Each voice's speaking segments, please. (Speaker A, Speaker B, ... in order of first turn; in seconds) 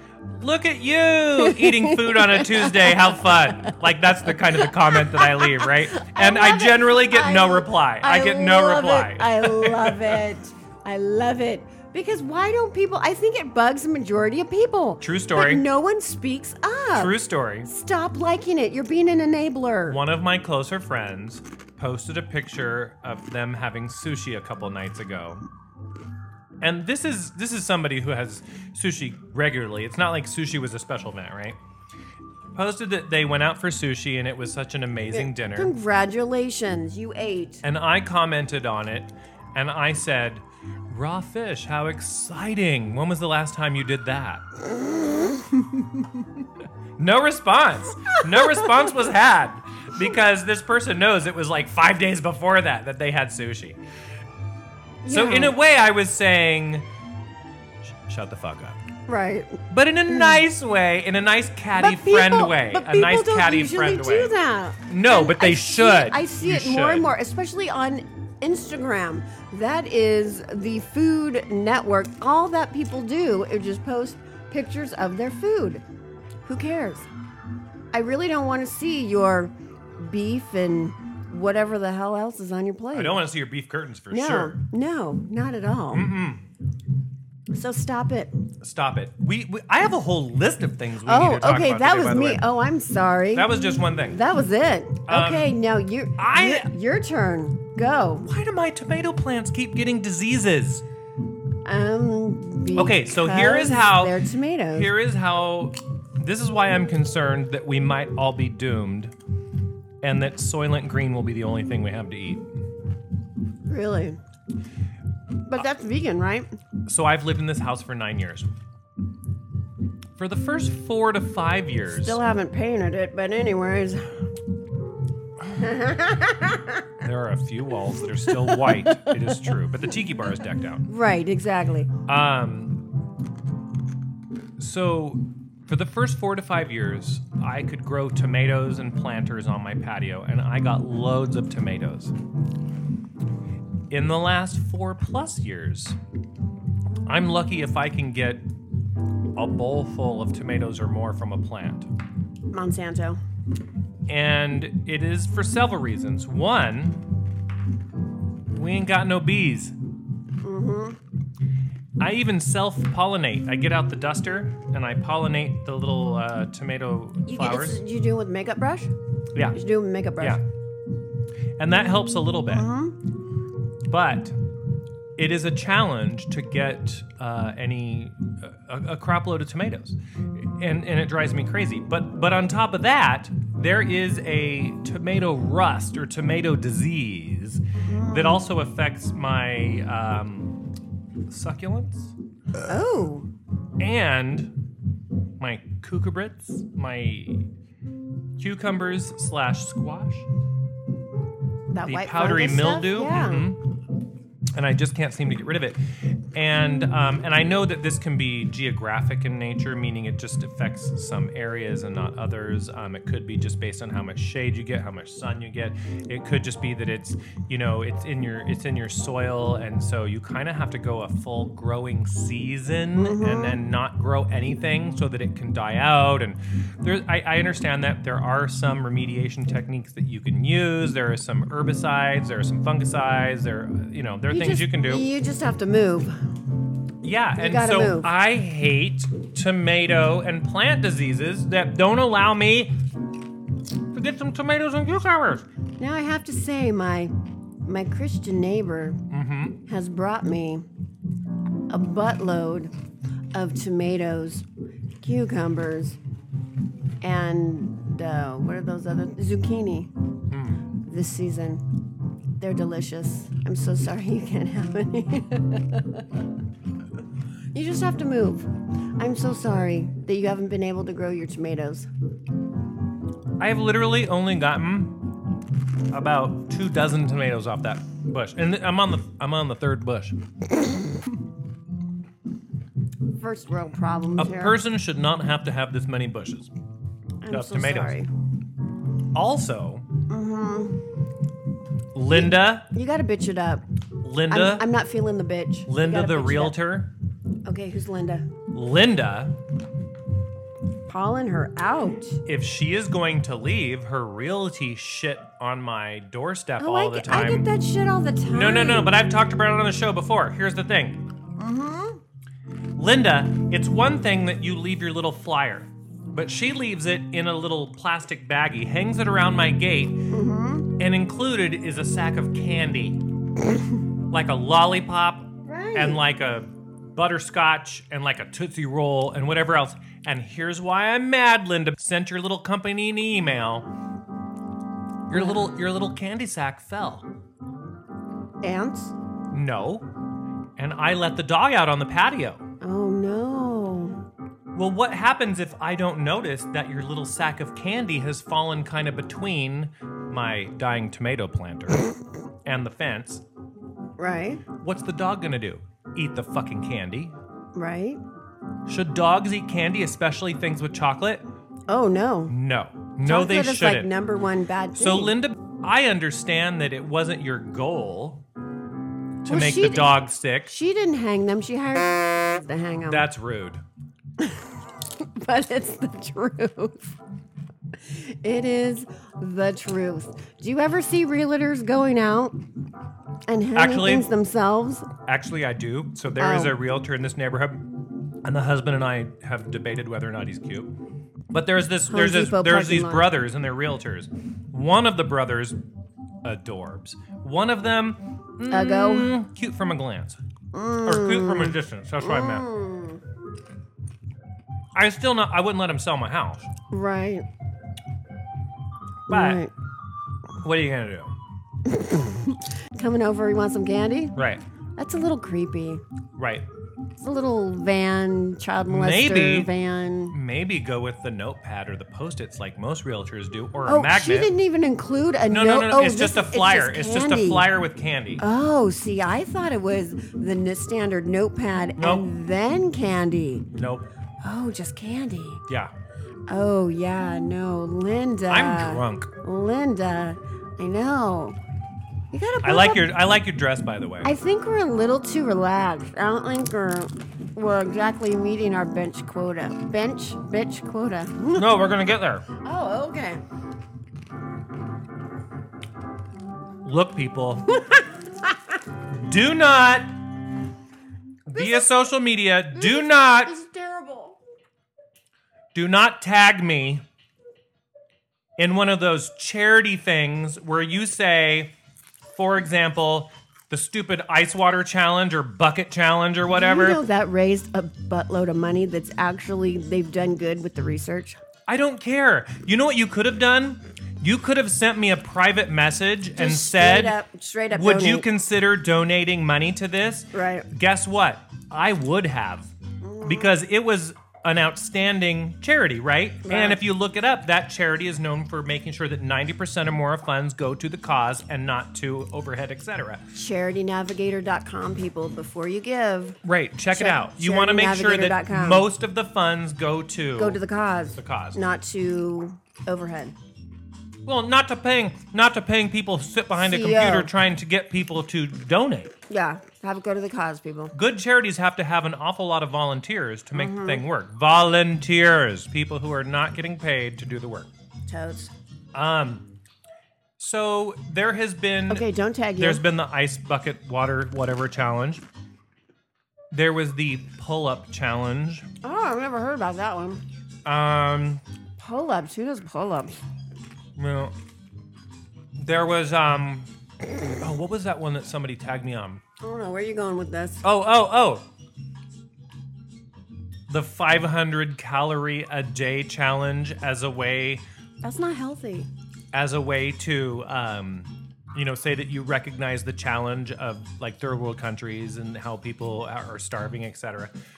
Speaker A: 0.4-10.2, 15.0-15.6, 16.9-17.7, 19.9-25.4, 26.6-31.6, 32.5-35.7, 37.6-44.4, 47.0-53.8, 55.1-56.9, 57.8-58.8, 59.7-64.3, 64.9-67.1, 82.9-84.6, 85.9-86.4, 88.6-92.4, 93.3-94.2, 95.1-95.5, 96.2-96.7, 98.2-100.8, 102.8-104.2, 104.7-109.1, 110.0-112.5, 116.9-118.5, 120.2-122.2, 127.0-130.9, 132.1-132.8, 134.6-142.1, 143.9-146.0, 147.1-148.4, 149.3-151.9, 154.1-157.0, 158.5-159.7, 162.0-167.8, 171.6-172.7, 173.9-174.3, 175.2-190.6, 191.3-192.1, 193.8-194.5, 195.4-197.4, 198.4-200.3, 201.9-203.6, 204.5-205.8, 206.3-235.1, 237.0-242.7, 243.9-245.4, 249.1-249.6, 260.3-260.6, 273.4-275.1, 275.9-280.2, 284.2-286.5, 287.3-288.0, 289.1-289.9, 291.9-292.7, 294.0-294.7, 295.7-296.9, 298.5-299.4, 302.2-307.5, 308.3-311.0, 312.8-320.0, 320.8-323.0, 324.1-333.7, 335.1-337.1, 339.3-339.9, 340.6-342.4, 344.5-351.9, 352.4-353.2, 354.6-357.1, 358.6-361.2, 362.3-363.9, 364.7-368.2, 369.2-370.5, 372.9-373.6, 383.5-384.1, 385.0-387.6, 388.2-390.7, 391.3-395.6, 396.2-400.2, 400.8-402.5, 404.7-406.5, 409.1-409.4, 410.4-411.1, 414.1-414.4, 416.1-416.4, 418.6-419.5, 420.1-424.3, 425.3-428.2, 431.8-432.1, 433.6-433.9, 435.5-435.7, 438.3-439.1, 442.4-444.1, 451.4-452.2, 456.6-457.4, 458.9-459.9, 461.3-463.4, 465.5-466.8, 468.4-471.5, 472.1-476.8, 481.5-487.0, 487.5-492.5, 493.0-503.1, 506.2-510.4, 510.9-511.4, 514.0-518.9, 520.7-527.5, 528.7-529.2, 530.2-531.9, 532.4-535.0, 536.3-538.5, 540.4-541.2, 543.8-544.1, 545.4-546.5, 547.1-549.0, 550.4-551.2, 553.5-557.4, 559.1-567.1
Speaker B: 1.4-3.8, 4.5-20.0, 35.1-37.6, 44.8-45.9, 55.0-55.5, 59.1-60.4, 61.8-75.8, 76.5-77.1, 77.9-83.2, 84.1-86.1, 87.5-88.3, 91.0-93.5, 94.1-98.3, 101.6-104.9, 113.6-114.2, 115.4-116.5, 121.9-124.2, 125.4-127.0, 128.2-129.2, 130.9-131.9, 152.5-153.2, 160.4-161.0, 167.3-168.9, 169.5-170.4, 172.5-173.0, 187.9-188.4, 192.7-193.3, 201.7-203.5, 223.0-223.6, 234.3-236.1, 237.4-238.1, 245.8-247.1, 247.6-249.0, 249.7-250.6, 251.7-252.7, 253.3-254.4, 255.0-256.0, 257.0-259.9, 260.8-261.6, 262.4-266.2, 267.5-271.9, 283.2-284.6, 287.2-288.1, 290.1-290.8, 292.1-293.6, 294.3-296.6, 297.4-298.3, 300.9-302.2, 306.6-308.9, 311.4-312.0, 320.1-320.7, 325.4-326.0, 335.1-335.4, 338.4-338.9, 342.6-344.0, 354.0-354.4, 357.5-358.0, 361.7-362.3, 363.0-365.1, 369.3-373.1, 374.2-377.0, 377.8-382.3, 383.3-384.9, 386.2-386.5, 391.9-393.1, 398.5-399.1, 400.5-403.0, 406.7-407.2, 409.1-409.5, 411.6-414.2, 414.8-415.8, 417.0-420.1, 423.6-427.4, 428.2-433.5, 434.2-435.4, 436.3-441.4, 442.1-442.9, 444.0-451.5, 452.3-453.2, 461.4-461.6, 462.5-464.2, 476.3-481.2, 486.1-488.1, 490.1-490.5, 492.8-493.3, 496.2-496.6, 503.1-506.2, 506.7-508.7, 510.2-513.1, 516.4-517.1, 519.1-520.7, 523.3-523.8, 527.9-528.3, 531.7-532.6, 538.6-540.0, 541.6-543.0, 549.2-550.4, 557.8-558.7